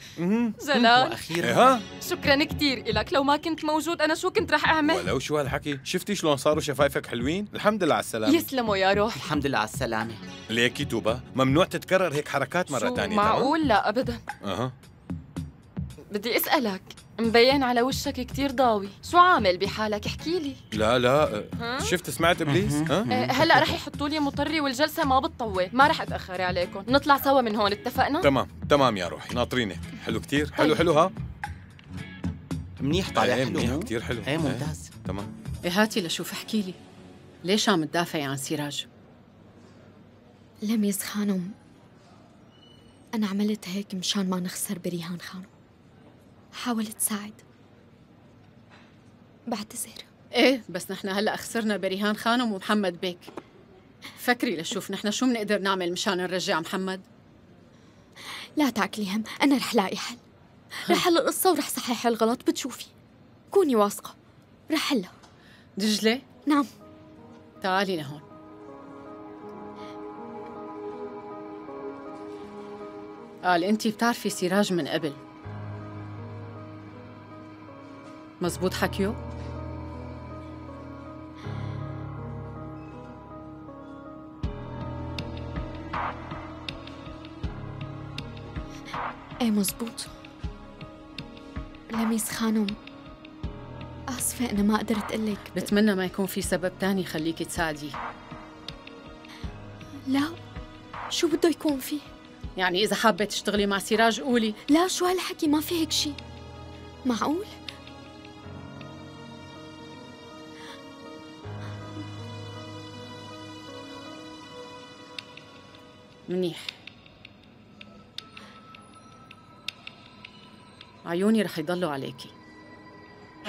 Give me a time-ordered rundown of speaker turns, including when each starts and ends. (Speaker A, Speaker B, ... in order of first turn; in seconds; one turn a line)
Speaker A: 0.2-0.6
Speaker B: 0.6-1.2
Speaker C: 0.7-1.8
Speaker A: 1.4-1.8
Speaker B: 2.0-5.0
Speaker A: 4.8-8.4
Speaker B: 8.2-9.2
Speaker C: 9.1-10.2
Speaker A: 10.5-13.5
Speaker B: 12.7-14.2
Speaker A: 14.4-14.7
Speaker B: 16.1-20.6
Speaker A: 20.7-23.8
Speaker B: 21.6-21.9
Speaker C: 22.4-23.4
Speaker B: 23.1-28.2
Speaker A: 28.2-31.1
Speaker C: 32.8-34.9
Speaker A: 33.1-35.3
Speaker D: 35.6-36.8
Speaker D: 37.4-38.9
Speaker E: 40.6-41.5
Speaker E: 43.1-45.5
Speaker E: 46.5-47.4
Speaker E: 49.5-50.1
Speaker D: 50.4-53.3
Speaker D: 54.2-57.0
Speaker E: 58.6-60.2
Speaker E: 60.9-62.9
Speaker E: 63.5-64.2
Speaker E: 64.7-65.1
Speaker D: 65.8-66.2
Speaker D: 67.6-68.2
Speaker D: 73.5-75.2
Speaker D: 78.4-79.2
Speaker E: 89.4-90.1
Speaker E: 91.9-92.8
Speaker E: 94.1-95.7
Speaker D: 95.5-97.9
Speaker E: 100.1-100.3
Speaker E: 101.1-102.1
Speaker D: 102.6-104.5
Speaker E: 104.7-106.2
Speaker E: 107.0-107.5
Speaker D: 116.3-116.7
Speaker D: 121.1-122.3